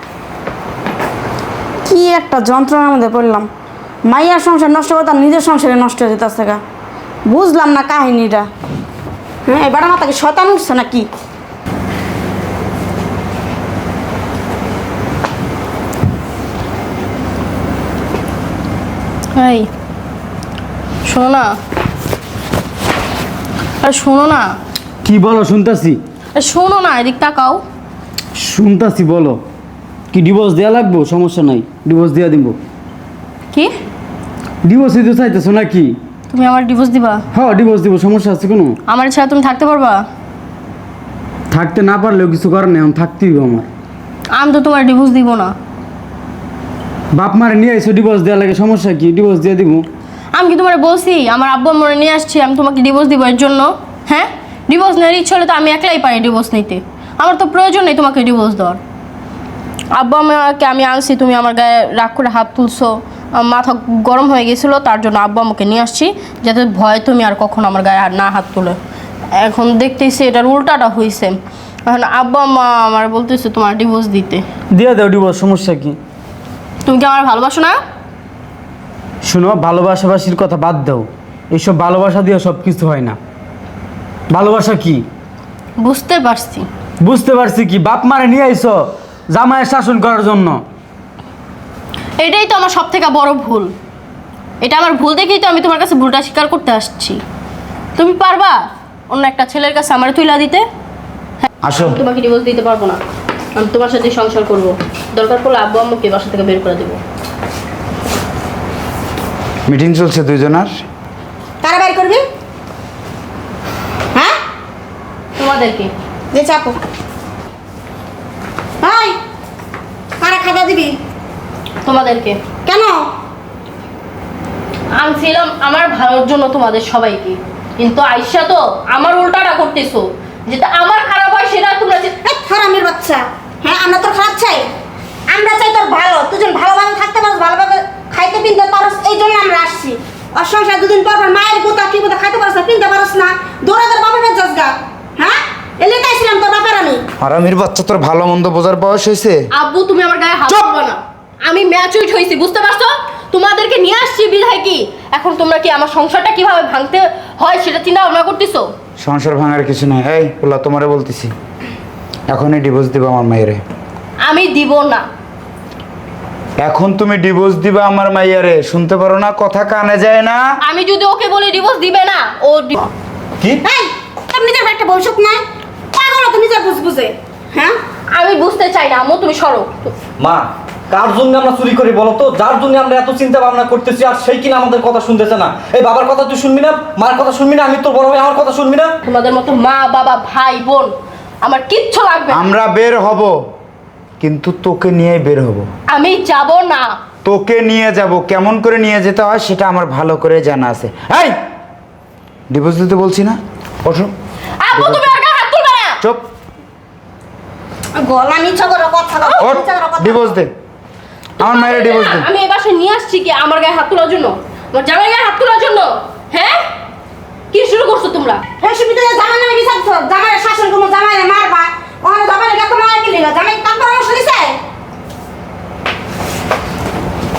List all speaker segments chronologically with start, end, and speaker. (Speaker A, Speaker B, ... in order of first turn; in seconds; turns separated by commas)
Speaker A: 1.9-3.5, Speaker A: 4.1-6.6, Speaker A: 7.3-8.5, Speaker A: 9.5-11.1, Speaker B: 19.3-19.7, Speaker B: 21.1-21.6, Speaker B: 23.8-24.6, Speaker C: 25.0-26.0, Speaker B: 26.3-27.6, Speaker C: 28.3-29.4, Speaker C: 30.1-32.6, Speaker C: 34.6-36.0, Speaker B: 36.3-37.2, Speaker C: 37.3-38.8, Speaker B: 38.9-40.0, Speaker C: 41.5-43.7, Speaker B: 44.3-45.5, Speaker C: 47.1-49.9, Speaker B: 50.3-58.8, Speaker B: 59.9-68.8, Speaker B: 69.3-74.4, Speaker C: 74.7-76.0, Speaker B: 76.8-77.8, Speaker C: 79.2-83.2, Speaker C: 84.3-85.0, Speaker B: 85.8-86.7, Speaker C: 87.0-90.6, Speaker B: 92.2-93.7, Speaker B: 94.6-97.2, Speaker B: 98.0-98.6, Speaker B: 99.1-100.6, Speaker D: 101.7-102.0, Speaker B: 101.8-103.0, Speaker B: 103.5-107.0, Speaker D: 109.7-110.7, Speaker A: 111.6-112.2, Speaker B: 115.4-115.9, Speaker A: 116.3-116.8, Speaker A: 118.8-119.2, Speaker A: 120.2-121.0, Speaker B: 121.8-122.4, Speaker A: 122.7-123.0, Speaker B: 124.9-132.2, Speaker A: 132.2-134.7, Speaker A: 135.3-147.0, Speaker D: 147.2-149.4, Speaker B: 149.5-158.7, Speaker D: 159.0-161.3, Speaker D: 162.3-163.6, Speaker B: 164.2-165.1, Speaker D: 166.6-170.4, Speaker B: 170.6-172.9, Speaker A: 173.6-175.4, Speaker A: 175.9-177.8, Speaker B: 178.1-179.9, Speaker E: 180.2-188.9, Speaker B: 189.0-190.9, Speaker B: 191.4-192.5, Speaker D: 192.3-193.3, Speaker D: 194.2-195.7, Speaker B: 195.9-196.9, Speaker D: 197.2-201.3, Speaker D: 202.5-204.1, Speaker B: 204.6-206.0, Speaker D: 204.7-205.1, Speaker A: 207.9-210.3, Speaker D: 209.4-210.5, Speaker D: 211.4-212.3, Speaker B: 211.4-216.6, Speaker B: 217.5-218.4, Speaker A: 218.6-224.6